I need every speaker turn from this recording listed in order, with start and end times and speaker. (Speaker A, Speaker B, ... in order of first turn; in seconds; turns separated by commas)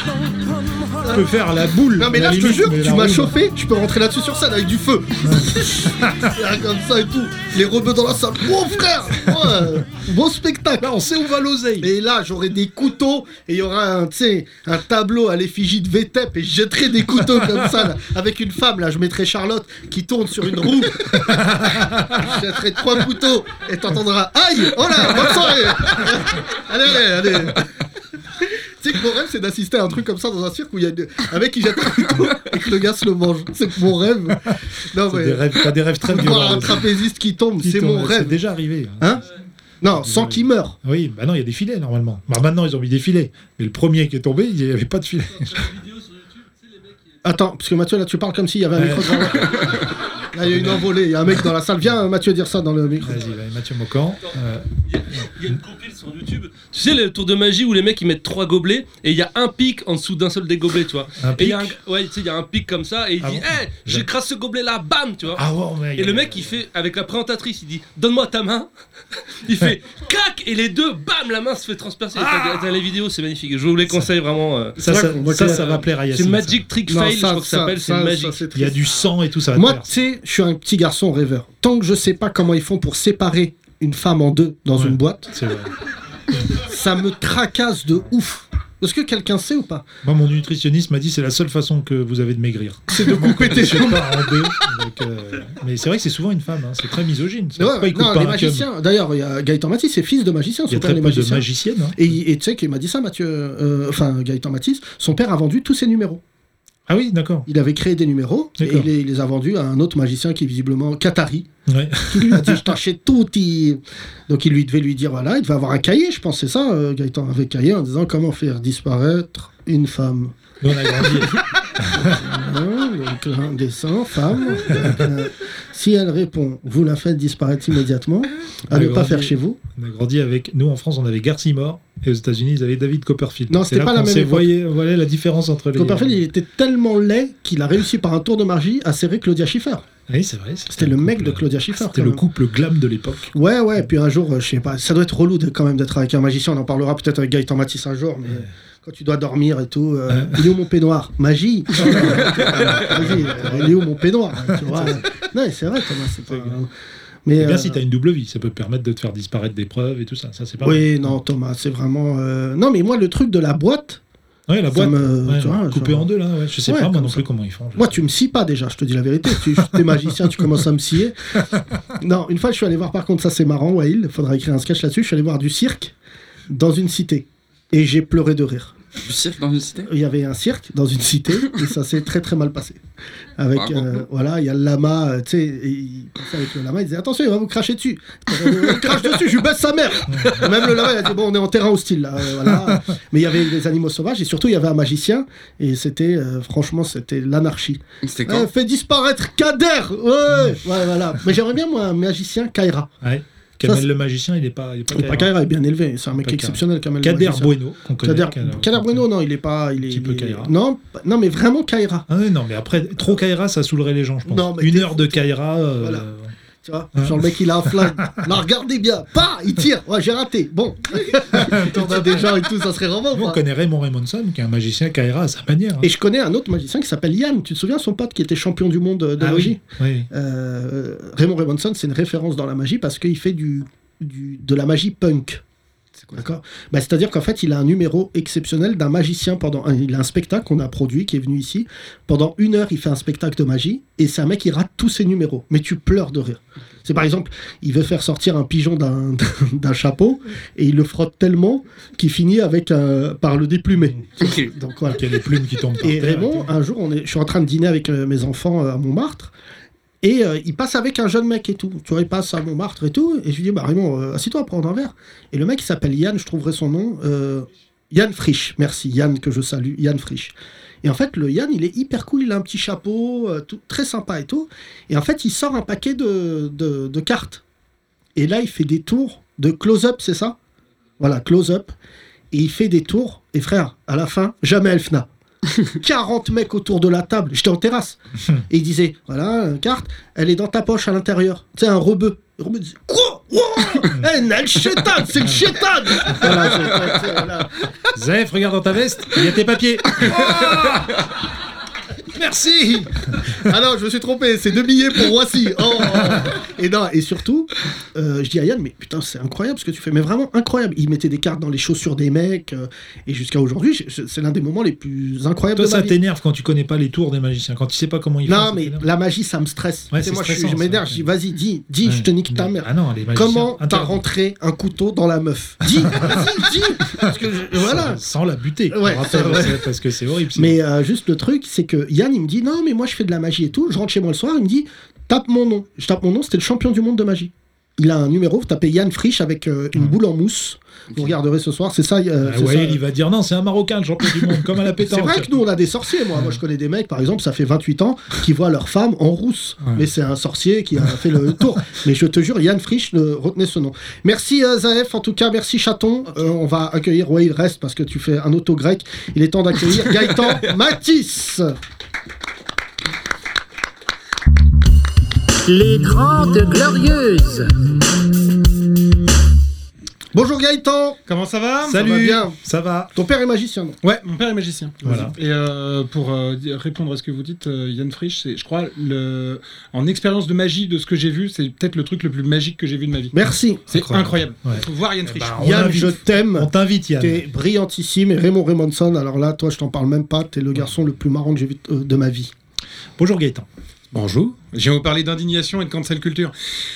Speaker A: 1.0-3.4, Speaker B: 2.0-10.9, Speaker A: 5.3-6.2, Speaker A: 10.8-11.9, Speaker B: 11.8-27.7, Speaker A: 21.3-22.2, Speaker B: 28.4-38.4, Speaker A: 35.0-36.9, Speaker A: 37.6-39.2, Speaker B: 39.8-40.8, Speaker A: 40.0-45.7, Speaker C: 45.6-46.2, Speaker B: 47.2-53.2, Speaker A: 48.8-49.8, Speaker A: 50.4-51.0, Speaker A: 53.0-54.7, Speaker C: 55.0-65.4, Speaker A: 61.2-61.8, Speaker A: 63.2-64.1, Speaker A: 65.3-66.6, Speaker C: 66.0-68.7, Speaker C: 69.4-78.5, Speaker A: 72.2-72.7, Speaker A: 73.9-74.1, Speaker A: 74.8-76.7, Speaker B: 74.8-75.8, Speaker B: 76.9-78.8, Speaker A: 78.5-79.9, Speaker B: 79.5-85.3, Speaker A: 84.8-85.7, Speaker B: 86.5-89.8, Speaker A: 90.0-98.7, Speaker B: 92.9-94.5, Speaker B: 97.6-106.2, Speaker A: 100.7-102.1, Speaker A: 106.9-107.5, Speaker B: 107.5-111.5, Speaker A: 108.6-108.9, Speaker A: 111.7-112.8, Speaker B: 112.1-120.4, Speaker A: 120.6-122.2, Speaker B: 121.9-129.6, Speaker A: 128.7-136.2, Speaker B: 133.5-134.5, Speaker B: 135.8-139.8, Speaker A: 140.1-143.3, Speaker B: 140.7-142.2, Speaker B: 143.3-156.7, Speaker A: 150.1-150.5, Speaker A: 151.7-153.9, Speaker A: 154.4-155.1, Speaker A: 156.3-156.6, Speaker B: 157.3-157.8, Speaker A: 157.4-161.2, Speaker B: 160.6-164.0, Speaker A: 164.5-168.1, Speaker B: 164.7-166.1, Speaker B: 166.7-167.2, Speaker B: 167.8-171.2, Speaker A: 169.4-170.4, Speaker B: 172.0-175.9, Speaker B: 176.5-178.8, Speaker D: 179.0-179.9, Speaker B: 179.9-182.8, Speaker B: 183.4-202.9, Speaker D: 183.5-184.0, Speaker A: 190.1-190.6, Speaker A: 192.4-192.8, Speaker D: 198.0-198.5, Speaker A: 200.3-200.8, Speaker A: 203.0-205.3, Speaker B: 204.9-212.1, Speaker A: 206.2-209.1, Speaker A: 209.8-210.5, Speaker A: 212.1-216.3, Speaker B: 214.3-215.3, Speaker B: 215.8-216.1, Speaker B: 216.6-223.4, Speaker A: 216.9-218.3, Speaker A: 221.1-222.4, Speaker A: 223.1-225.9, Speaker B: 225.8-229.6, Speaker A: 229.2-230.1, Speaker B: 230.1-235.4, Speaker B: 236.2-255.0, Speaker A: 253.8-254.3, Speaker A: 254.9-256.5, Speaker B: 255.8-259.3, Speaker B: 260.0-277.4, Speaker B: 278.2-280.4, Speaker B: 281.0-281.7, Speaker B: 282.3-285.1, Speaker B: 285.6-297.6, Speaker A: 297.9-301.1, Speaker A: 302.1-303.3, Speaker B: 303.3-316.0, Speaker A: 315.6-318.9, Speaker B: 318.3-328.0, Speaker A: 319.9-321.1, Speaker A: 321.8-324.0, Speaker A: 325.8-326.3, Speaker A: 326.9-330.6, Speaker B: 328.7-329.7, Speaker B: 330.4-342.8, Speaker A: 342.2-345.3, Speaker B: 344.8-361.5, Speaker E: 365.5-368.5, Speaker B: 370.1-371.0, Speaker F: 371.1-371.8, Speaker A: 371.6-372.9, Speaker B: 371.7-372.4, Speaker B: 372.9-373.8, Speaker F: 373.8-383.2, Speaker B: 374.8-375.1, Speaker A: 374.8-375.1, Speaker B: 383.1-383.7, Speaker F: 383.7-385.7, Speaker A: 383.7-387.2, Speaker B: 385.4-392.3, Speaker A: 393.0-393.5, Speaker F: 393.9-396.3